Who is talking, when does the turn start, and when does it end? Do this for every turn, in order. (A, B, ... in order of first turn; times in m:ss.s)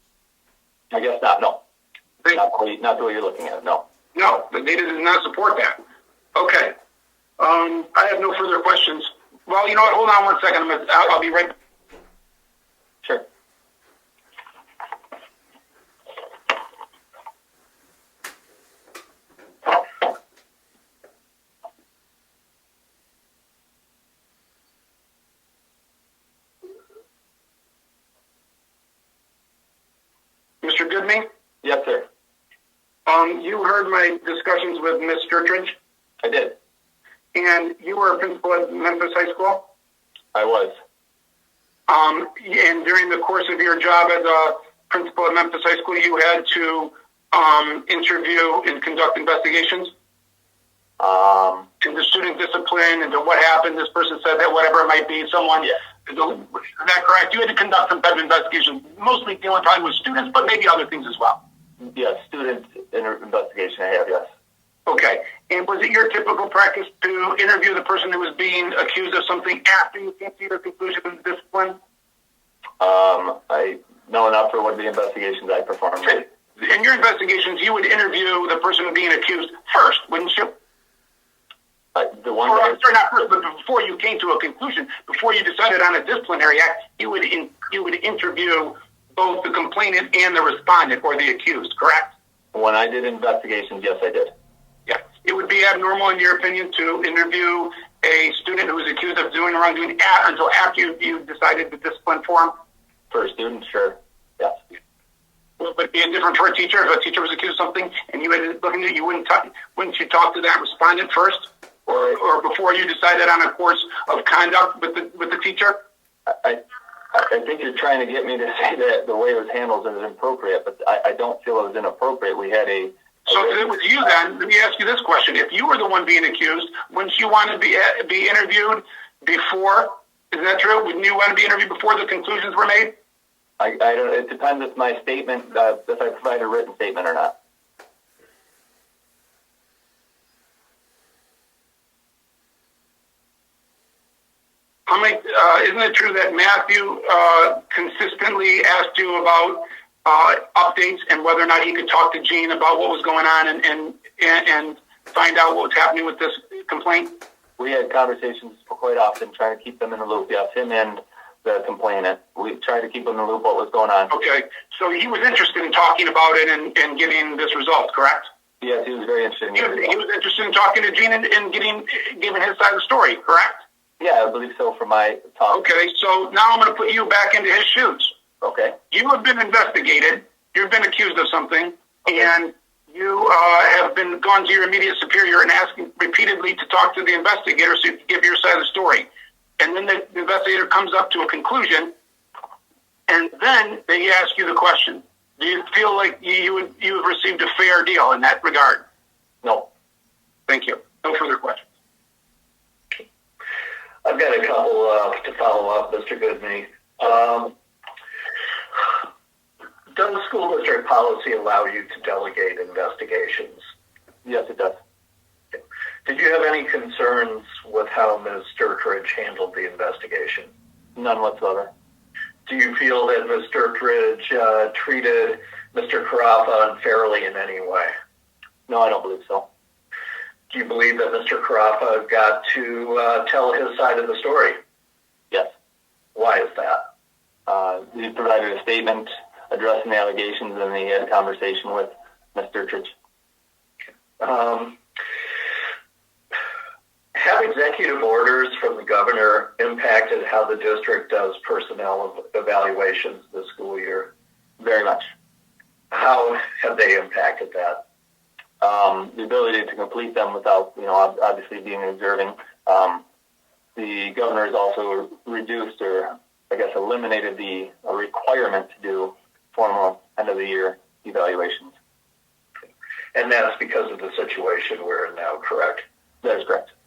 0:00.9-0:01.6 A
0:02.2-0:03.8 A
0:04.1-0:05.8 B
0:06.4-0:06.7 B
0:07.4-0:11.5 B
0:30.6-0:31.3 B
0:31.6-0:32.1 A
0:33.0-0:35.8 B
0:36.2-0:36.6 A
0:37.3-0:39.7 B
0:40.3-0:40.7 A
0:41.9-0:49.9 B
0:51.0-0:51.7 A
0:51.8-1:01.4 B
1:01.8-1:04.2 A
1:04.9-1:11.8 B
1:12.8-1:16.2 A
1:16.1-1:20.6 B
1:22.0-1:22.8 A
1:22.5-1:32.1 B
1:32.5-1:34.3 A
1:34.9-1:42.5 B
1:43.1-1:44.6 A
1:45.6-1:55.8 B
1:56.3-2:03.6 A
2:03.3-2:12.9 B
2:13.6-2:17.3 A
2:24.9-2:37.2 B
2:37.6-2:44.1 A
2:44.1-2:48.3 B
2:48.6-2:49.9 A
2:49.6-2:53.6 B
2:54.0-2:55.7 A
2:55.5-2:58.1 B
2:58.4-2:58.8 A
2:58.9-3:09.1 B
3:09.6-3:11.9 B
3:13.1-3:18.8 B
3:19.4-3:19.7 A
3:20.5-3:21.6 B
3:24.0-3:27.5 C
3:29.9-3:33.6 C
3:34.2-3:34.8 A
3:35.5-3:40.5 C
3:41.0-3:41.7 A
3:42.4-3:47.9 C
3:48.7-3:49.4 A
3:50.5-3:54.6 C
3:56.1-3:56.8 C
3:57.5-4:02.9 A
4:04.2-4:04.8 C
4:07.1-4:14.1 C
4:14.6-4:15.1 A
4:15.9-4:17.8 C
4:18.6-4:23.0 A
4:23.8-4:31.7 A
4:33.2-4:35.8 C
4:36.2-4:36.7 A